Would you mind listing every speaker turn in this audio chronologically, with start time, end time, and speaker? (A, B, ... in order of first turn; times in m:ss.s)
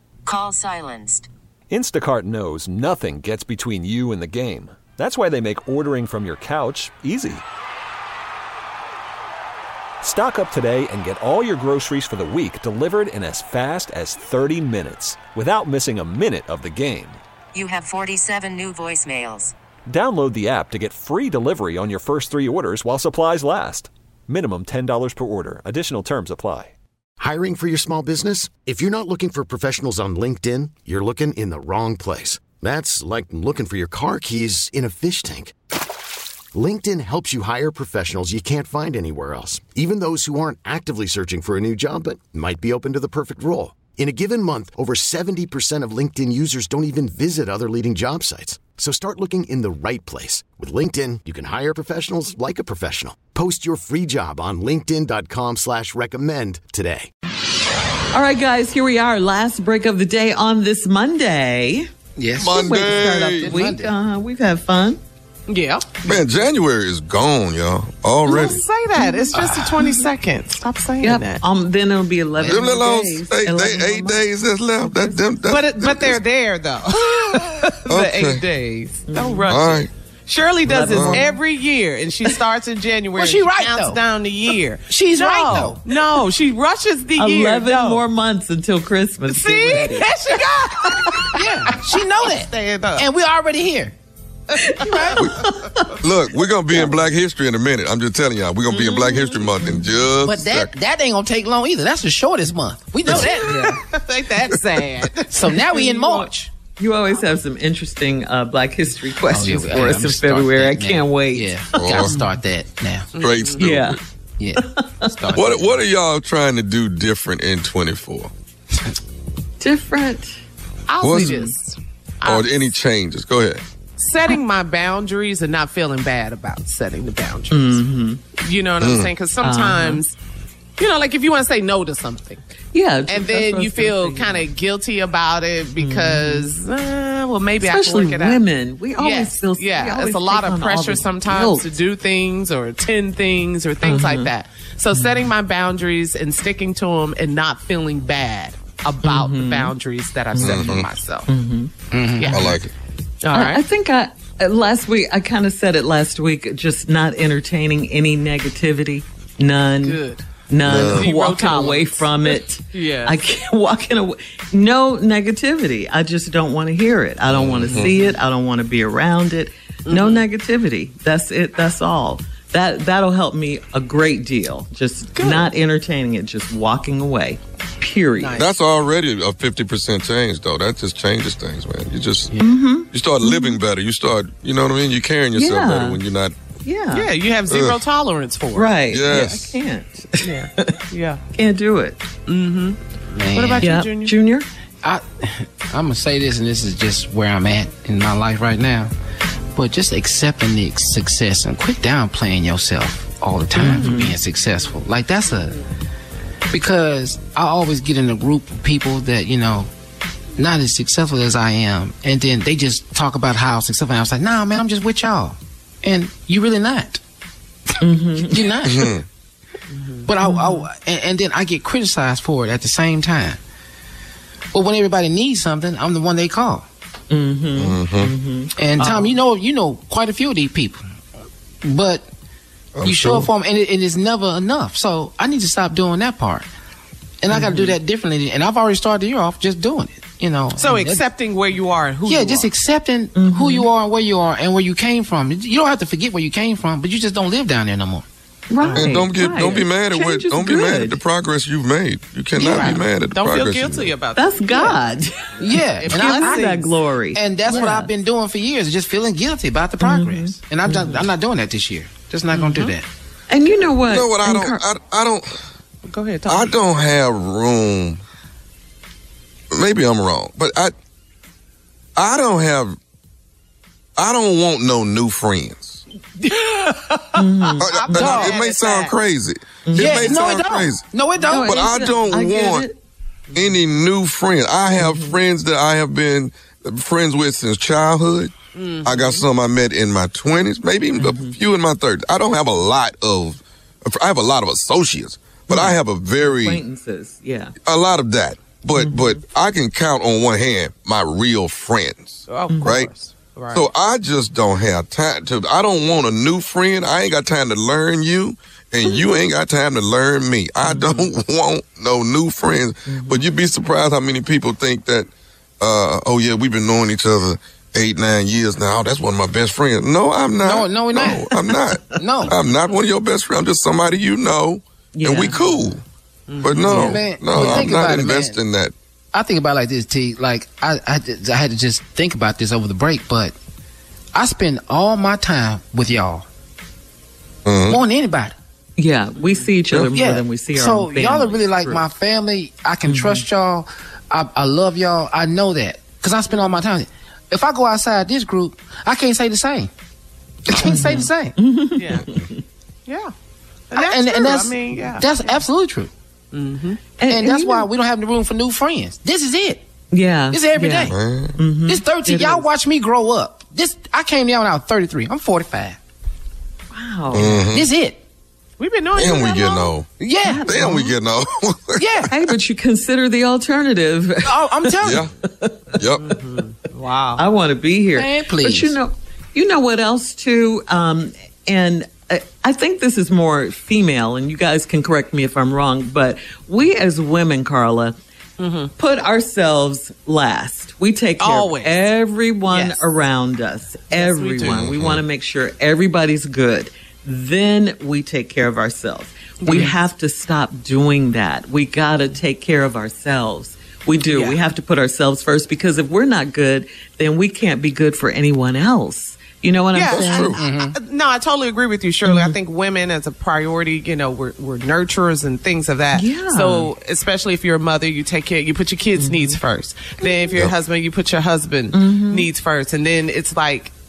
0:00.2-0:01.3 A
0:01.7-0:07.4 B
0:10.0-0:17.2 B
0:17.5-0:19.6 A
0:19.9-0:26.7 B
0:27.2-0:35.5 C
0:36.5-0:57.1 C
0:58.1-1:01.9 D
1:02.2-1:04.0 E
1:02.4-1:03.5 F
1:02.5-1:05.0 D
1:05.5-1:06.1 G
1:06.0-1:08.6 F
1:08.3-1:11.4 G
1:09.0-1:09.3 D
1:09.3-1:09.8 E
1:11.0-1:14.3 D
1:12.4-1:12.8 E
1:12.5-1:16.2 F
1:15.4-1:28.0 G
1:17.9-1:18.4 F
1:19.1-1:19.6 D
1:19.5-1:19.9 F
1:20.6-1:21.3 D
1:20.9-1:21.2 F
1:23.2-1:24.0 E
1:24.9-1:25.8 E
1:27.2-1:30.1 D
1:29.3-1:33.1 G
1:31.2-1:33.9 E
1:34.5-1:35.9 G
1:34.8-1:35.2 E
1:35.2-1:35.8 D
1:36.0-1:40.7 F
1:38.7-1:39.8 D
1:40.2-1:43.6 E
1:43.1-1:43.8 D
1:43.3-1:46.1 G
1:45.3-1:46.5 E
1:46.0-1:52.1 D
1:49.3-1:53.1 E
1:51.8-1:52.2 F
1:53.1-1:53.8 G
1:53.2-1:54.0 F
1:53.6-1:54.0 D
1:54.4-1:55.8 E
1:55.3-1:58.3 F
1:59.6-2:00.4 D
2:00.9-2:02.6 G
2:01.0-2:01.4 F
2:01.2-2:01.5 D
2:02.2-2:03.6 F
2:04.0-2:07.8 G
2:07.5-2:08.2 D
2:08.4-2:10.2 G
2:08.8-2:09.1 F
2:09.4-2:10.0 D
2:10.8-2:12.4 G
2:12.7-2:14.5 D
2:13.1-2:18.4 G
2:15.8-2:16.5 D
2:17.6-2:21.7 D
2:19.0-2:31.3 G
2:23.8-2:24.3 D
2:29.0-2:29.7 D
2:30.3-2:31.7 D
2:30.4-2:30.9 F
2:31.9-2:32.4 E
2:32.2-2:32.6 G
2:32.3-2:32.7 F
2:33.2-2:33.6 G
2:33.3-2:58.4 D
2:39.8-2:40.2 G
2:40.6-2:41.1 F
2:40.9-2:43.2 G
2:47.3-2:47.9 F
2:49.9-2:50.2 G
2:55.2-2:55.5 G
2:58.2-2:58.5 G
2:58.4-3:02.4 F
3:02.4-3:03.6 D
3:02.9-3:06.4 F
3:05.4-3:06.0 D
3:06.6-3:07.1 D
3:06.9-3:09.4 G
3:07.5-3:07.8 F
3:08.5-3:10.7 D
3:08.9-3:09.6 F
3:10.2-3:11.2 G
3:11.3-3:12.0 D
3:12.3-3:14.2 G
3:13.2-3:13.7 E
3:13.6-3:14.5 D
3:14.8-3:18.9 E
3:19.6-3:25.6 E
3:23.6-3:24.2 D
3:26.5-3:29.7 E
3:30.4-3:37.0 E
3:37.8-3:38.5 D
3:38.2-3:39.0 E
3:38.6-3:39.0 F
3:39.7-3:40.1 G
3:40.1-3:43.4 E
3:40.2-3:40.7 D
3:44.5-3:46.7 E
3:47.1-3:49.2 D
3:47.6-3:48.1 F
3:48.6-3:50.8 E
3:51.6-3:52.1 E
3:52.8-3:53.3 F
3:52.8-3:56.5 E
3:57.2-4:01.1 E
3:57.3-3:57.8 D
4:00.6-4:02.5 G
4:02.1-4:08.1 E
4:03.2-4:03.7 D
4:08.5-4:11.0 D
4:08.7-4:13.9 F
4:12.4-4:14.8 G
4:14.1-4:17.9 D
4:15.4-4:16.6 E
4:15.8-4:16.8 G
4:17.1-4:22.9 E
4:19.8-4:21.1 D
4:22.3-4:22.8 G
4:23.3-4:24.6 D
4:23.9-4:25.4 F
4:25.9-4:26.6 G
4:26.3-4:28.0 F
4:29.5-4:30.7 F
4:32.0-4:32.8 F
4:34.0-4:35.8 F
4:36.4-4:36.9 E
4:37.2-4:38.3 D
4:37.6-4:40.8 F
4:37.7-4:39.0 G
4:37.9-4:38.4 E
4:39.6-4:40.2 D
4:39.8-4:41.7 E
4:41.2-4:42.8 D
4:41.4-4:42.7 F
4:43.3-4:43.6 G
4:43.3-4:48.3 F
4:44.8-4:45.2 D
4:48.6-4:49.2 G
4:48.8-4:56.6 F
4:51.0-4:51.4 D
4:55.5-4:57.5 D
4:57.6-5:02.9 F
4:58.8-4:59.2 D
5:02.3-5:03.7 G
5:02.5-5:02.7 D
5:03.5-5:25.8 F
5:10.6-5:11.0 D
5:12.9-5:13.2 D
5:20.4-5:21.3 E
5:21.9-5:22.4 E
5:24.9-5:25.7 D
5:26.3-5:26.7 G
5:26.4-5:28.7 F
5:26.6-5:27.7 D
5:26.6-5:28.4 E
5:29.1-5:33.4 E
5:34.1-5:36.3 E
5:37.4-5:37.8 F
5:37.7-5:38.4 E
5:38.8-5:41.8 D
5:39.9-5:49.7 E
5:42.9-5:43.2 D
5:50.5-5:51.4 E
5:50.6-5:52.3 D
5:51.8-5:52.1 G
5:52.9-5:53.1 G
5:53.7-5:55.4 G
5:53.8-5:55.9 E
5:56.3-5:56.8 G
5:57.0-5:57.7 D
5:57.1-5:59.6 E
5:59.9-6:02.5 D
6:00.3-6:01.0 E
6:00.9-6:01.4 F
6:01.6-6:05.8 E
6:06.7-6:07.4 D
6:07.1-6:07.7 F
6:07.3-6:08.0 E
6:08.6-6:09.8 G
6:09.0-6:09.9 F
6:10.0-6:10.6 E
6:10.2-6:11.0 D
6:10.5-6:12.3 F
6:11.8-6:12.1 E
6:12.1-6:15.6 D
6:14.2-6:15.0 E
6:14.8-6:15.1 F
6:15.8-6:16.1 F
6:16.0-6:17.2 G
6:17.2-6:28.0 D
6:18.0-6:18.8 E
6:28.4-6:28.7 G
6:28.8-6:50.4 D
6:31.2-6:31.9 G
6:32.5-6:32.9 G
6:33.9-6:34.6 G
6:34.5-6:35.0 F
6:39.4-6:39.8 G
6:44.1-6:44.4 G
6:49.7-7:03.7 G
6:49.9-6:50.4 F
6:50.3-6:50.8 E
6:52.0-6:52.3 D
6:55.9-6:56.7 D
6:59.0-6:59.4 D
7:01.7-7:02.3 D